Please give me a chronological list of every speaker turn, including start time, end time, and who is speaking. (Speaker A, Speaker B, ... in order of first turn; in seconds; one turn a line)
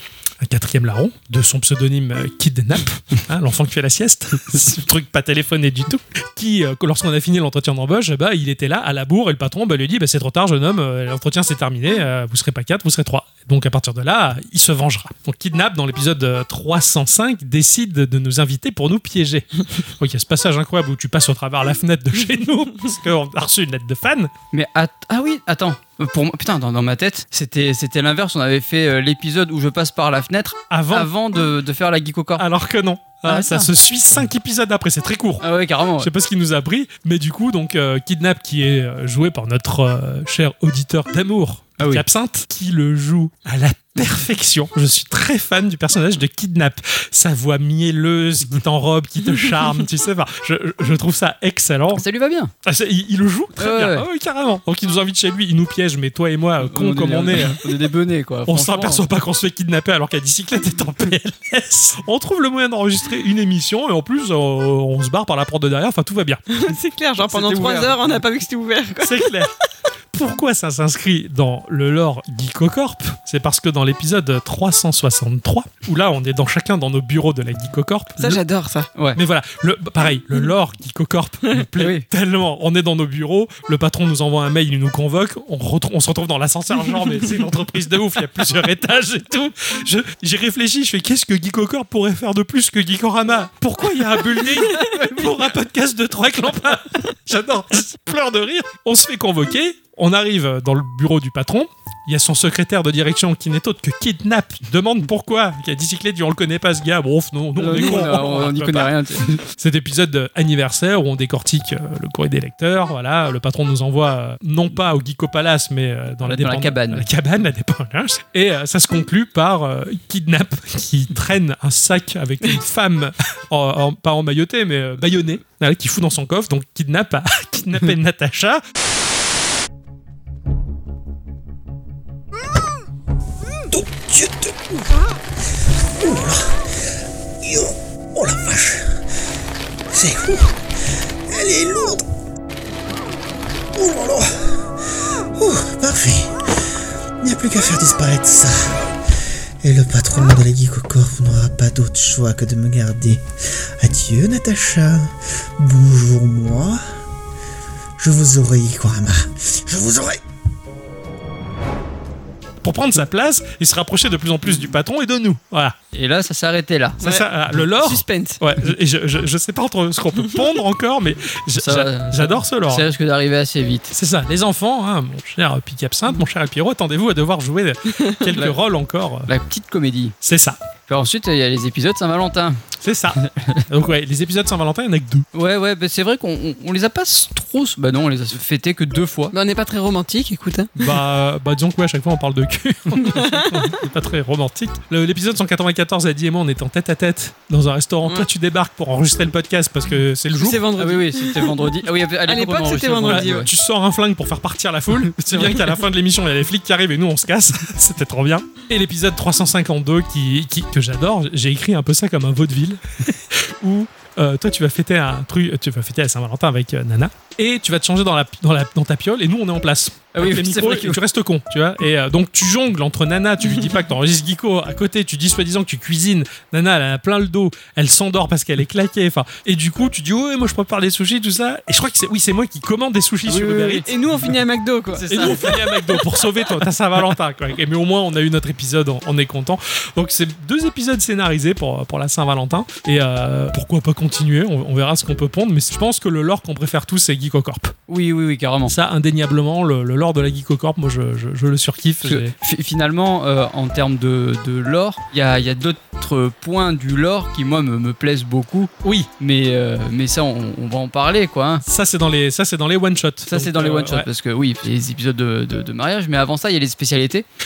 Speaker A: 0.4-24.3
Speaker B: 24.5-32.5
Speaker A: 30.7-31.1
Speaker A: 32.4-35.5
Speaker B: 33.2-33.7
Speaker B: 35.4-36.1
Speaker A: 36.0-52.0
Speaker B: 41.8-42.0
Speaker B: 52.0-52.5
Speaker A: 52.6-57.6
Speaker B: 53.6-54.1
Speaker B: 56.6-59.0
Speaker A: 58.5-66.4
Speaker C: 66.5-69.5
Speaker B: 67.3-68.1
Speaker A: 69.0-69.5
Speaker A: 70.1-78.4
Speaker C: 78.2-78.9
Speaker A: 79.1-128.6
Speaker B: 81.8-82.1
Speaker B: 107.6-109.4
Speaker B: 116.2-117.1
Speaker D: 133.7-135.0
Speaker D: 136.0-136.7
Speaker D: 137.4-139.0
Speaker D: 139.9-140.6
Speaker D: 141.3-142.0
Speaker D: 143.7-144.6
Speaker D: 145.3-146.4
Speaker D: 147.2-148.8
Speaker D: 149.6-153.2
Speaker D: 153.8-156.8
Speaker D: 158.0-160.2
Speaker A: 162.6-165.8
Speaker B: 165.9-167.0
Speaker A: 167.0-172.9
Speaker C: 167.0-168.4
Speaker B: 171.6-173.9
Speaker A: 173.9-179.3
Speaker B: 179.3-180.2
Speaker A: 180.2-180.6
Speaker B: 180.9-182.6
Speaker A: 182.8-185.3
Speaker B: 183.2-183.7
Speaker B: 185.3-189.3
Speaker C: 189.3-190.8
Speaker A: 190.8-200.6
Speaker C: 193.0-193.8
Speaker C: 200.3-203.5
Speaker B: 200.8-203.5
Speaker A: 203.1-234.4
Speaker B: 205.2-205.6
Speaker B: 220.1-221.0
Speaker B: 233.3-233.9
Speaker C: 233.9-235.6
Speaker B: 234.9-235.9
Speaker A: 235.1-247.8
Speaker B: 247.9-248.8
Speaker A: 248.7-252.3
Speaker B: 252.0-261.6
Speaker A: 258.8-259.1
Speaker A: 261.6-264.1
Speaker B: 263.3-267.2